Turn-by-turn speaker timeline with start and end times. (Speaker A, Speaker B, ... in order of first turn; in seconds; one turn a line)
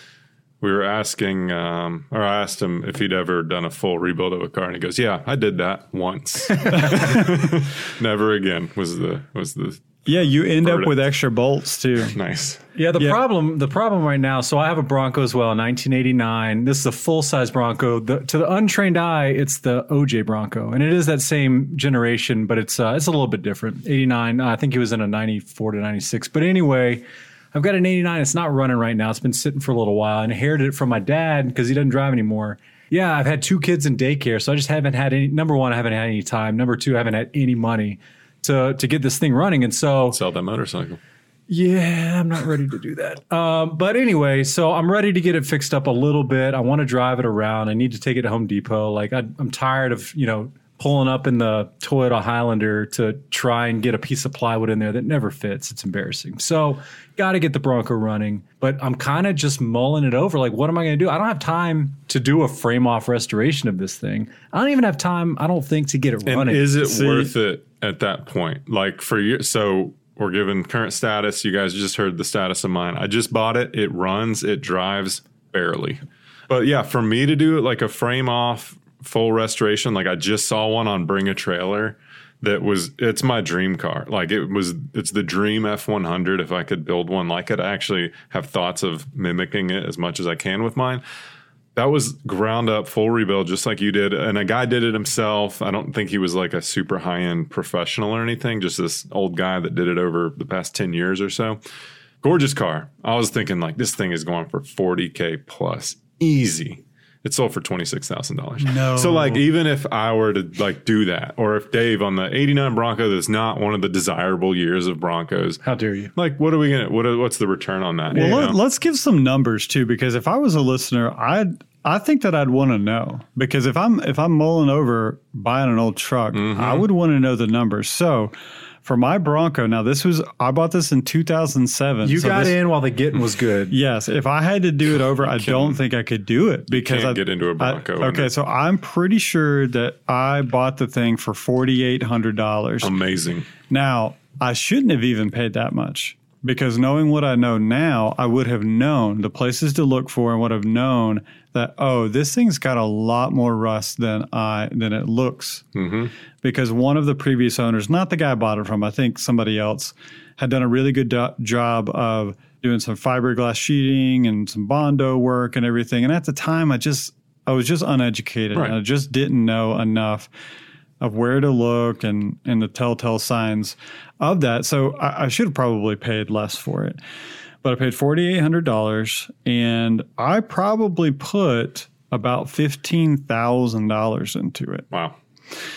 Speaker A: 0.6-10.0
Speaker B: 10.1-12.2
Speaker A: 10.6-10.9
Speaker A: 12.1-12.6
Speaker C: 12.8-40.2
Speaker A: 40.1-41.0
Speaker C: 41.5-66.7
Speaker A: 66.2-91.0
Speaker B: 66.8-67.3
Speaker A: 91.7-101.6
Speaker A: 102.2-115.6
Speaker B: 108.6-109.4
Speaker C: 115.6-116.1
Speaker A: 116.1-118.6
Speaker B: 118.1-132.6
Speaker A: 126.3-126.8
Speaker C: 132.0-133.8
Speaker B: 133.7-142.9
Speaker A: 135.2-135.8
Speaker A: 136.7-138.3
Speaker A: 142.8-143.5
Speaker B: 143.7-155.7
Speaker A: 155.7-156.1
Speaker B: 156.4-170.3
Speaker B: 171.0-177.0
Speaker B: 177.6-184.9
Speaker A: 184.9-185.2